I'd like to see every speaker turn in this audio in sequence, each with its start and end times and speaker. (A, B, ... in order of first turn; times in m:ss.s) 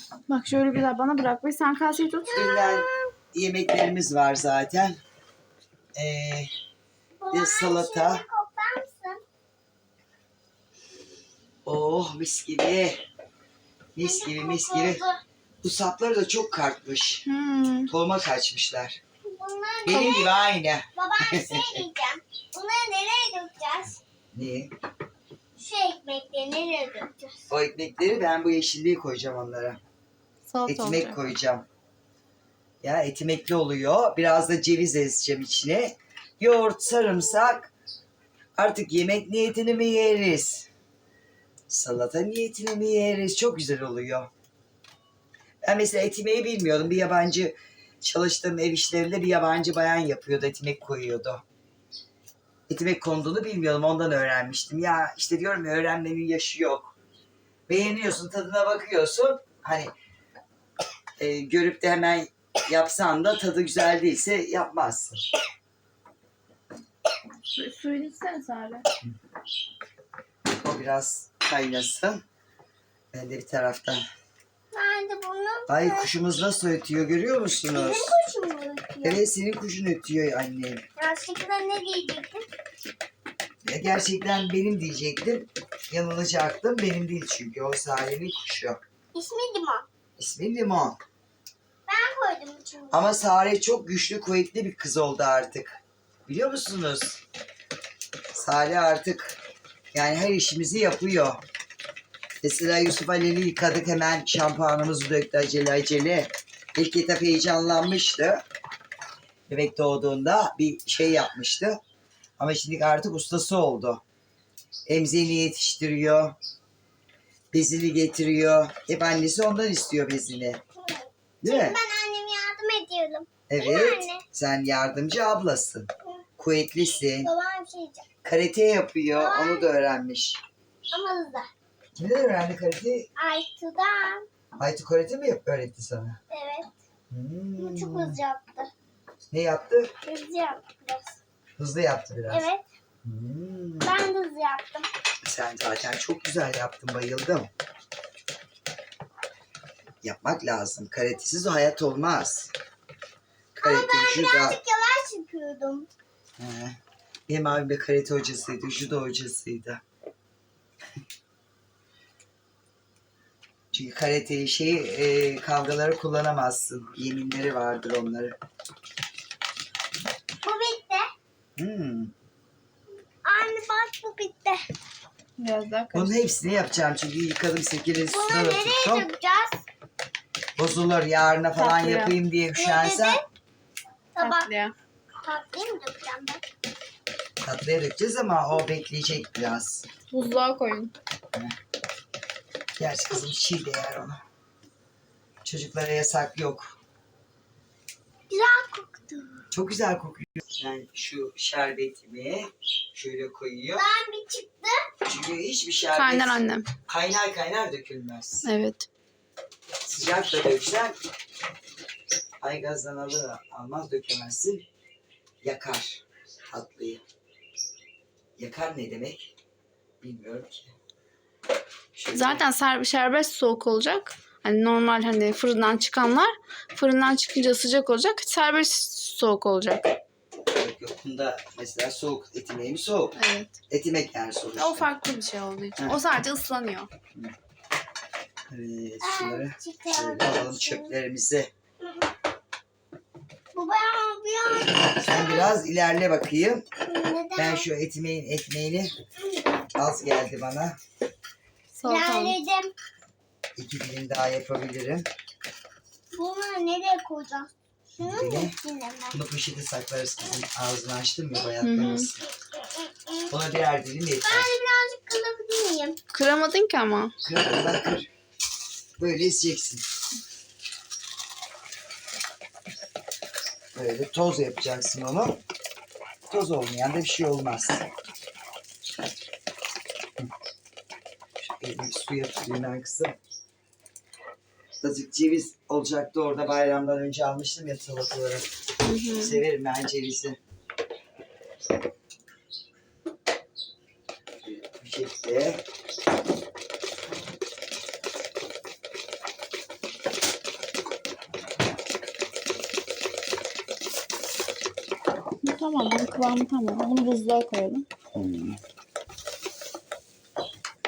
0:00.3-0:02.4 A
0:02.2-0:03.1 B
0:02.3-0:05.0 C
0:06.0-0:06.5 C
0:07.2-0:09.2 B
0:07.3-0:08.2 C
0:11.6-0:13.0 C
0:14.0-0:15.0 C
0:14.0-0:15.2 B
0:15.6-0:17.3 C
0:17.3-0:17.9 A
0:17.9-0:19.0 C
0:19.2-0:24.0 B
0:19.9-0:21.8 C
0:24.3-0:24.7 C
0:25.6-0:27.5 B
0:27.5-0:29.8 C
0:30.5-0:31.3 A
0:30.7-0:31.7 C
0:32.8-0:37.7 C
0:38.6-0:40.7 C
0:41.7-0:44.3 C
0:45.6-0:51.4 C
0:52.7-0:56.9 C
0:57.7-0:59.9 C
1:01.2-1:05.2 C
1:07.5-1:08.9 A
1:10.6-1:12.2 C
1:13.1-1:14.0 C
1:14.7-1:16.1 B
1:15.7-1:18.2 C
1:17.7-1:19.2 B
1:19.0-1:20.8 C
1:21.0-1:22.5 B
1:23.6-1:28.8 C
1:29.1-1:29.9 B
1:30.2-1:31.0 C
1:31.9-1:33.0 B
1:32.9-1:37.2 C
1:38.3-1:39.4 C
1:39.9-1:41.4 C
1:42.4-1:48.4 C
1:49.5-1:51.8 C
1:52.4-1:54.0 C
1:54.9-1:56.4 C
1:57.5-2:00.6 C
2:00.8-2:04.2 B
2:01.4-2:01.8 C
2:03.5-2:07.3 C
2:07.2-2:08.1 B
2:08.2-2:10.4 C
2:09.2-2:09.7 B
2:10.9-2:11.5 B
2:12.0-2:13.1 C
2:13.2-2:14.3 B
2:14.6-2:16.2 C
2:16.3-2:16.7 B
2:17.1-2:18.2 C
2:17.6-2:18.7 B
2:19.3-2:19.9 C
2:20.0-2:21.2 B
2:21.6-2:22.4 C
2:22.3-2:22.6 B
2:23.0-2:24.0 C
2:23.8-2:24.9 B
2:25.2-2:27.5 C
2:30.0-2:32.5 C
2:33.6-2:35.9 B
2:33.6-2:34.6 C
2:36.4-2:39.8 C
2:43.7-2:48.4 C
2:50.4-2:51.1 B
2:51.6-2:52.1 C
2:53.2-2:54.6 B
2:55.4-2:56.1 A
2:55.9-2:59.1 C
2:58.1-2:59.6 B
3:00.6-3:03.2 C
3:01.6-3:02.1 A
3:02.6-3:03.3 B
3:04.2-3:04.5 B
3:04.2-3:04.7 A
3:05.2-3:06.4 B
3:07.4-3:09.8 C
3:10.1-3:10.9 A
3:12.8-3:14.2 C
3:15.4-3:16.8 C
3:18.3-3:19.4 B
3:19.5-3:23.9 C
3:23.7-3:24.9 B
3:25.0-3:28.5 C
3:26.0-3:26.7 A
3:28.4-3:28.9 A
3:29.8-3:31.0 C
3:32.4-3:34.6 C
3:35.4-3:37.0 C
3:38.4-3:39.3 C
3:40.0-3:40.7 C
3:41.9-3:42.4 C
3:42.1-3:49.9 A
3:50.5-3:53.2 C
3:53.2-3:53.6 A
3:53.7-3:54.9 C
3:54.6-3:56.9 A
3:58.5-4:01.5 C
3:59.0-4:00.9 B
4:01.8-4:02.1 B
4:03.5-4:05.6 B
4:05.0-4:06.7 C
4:06.9-4:07.7 B
4:07.4-4:08.9 C
4:09.8-4:10.8 C
4:11.8-4:12.4 A
4:11.9-4:12.7 B
4:13.6-4:15.1 C
4:16.1-4:19.2 B
4:18.0-4:18.6 C
4:19.1-4:22.2 C
4:21.6-4:22.1 A
4:22.2-4:23.3 B
4:23.3-4:24.5 C
4:24.2-4:26.0 B
4:26.1-4:27.2 A
4:27.2-4:28.1 C
4:29.0-4:29.8 C
4:33.8-4:35.4 C
4:36.3-4:37.9 C
4:41.4-4:43.2 C
4:44.8-4:48.5 C
4:48.8-4:49.4 A
4:49.2-4:50.4 C
4:54.4-4:55.6 C
5:05.4-5:07.9 A
5:08.1-5:08.6 C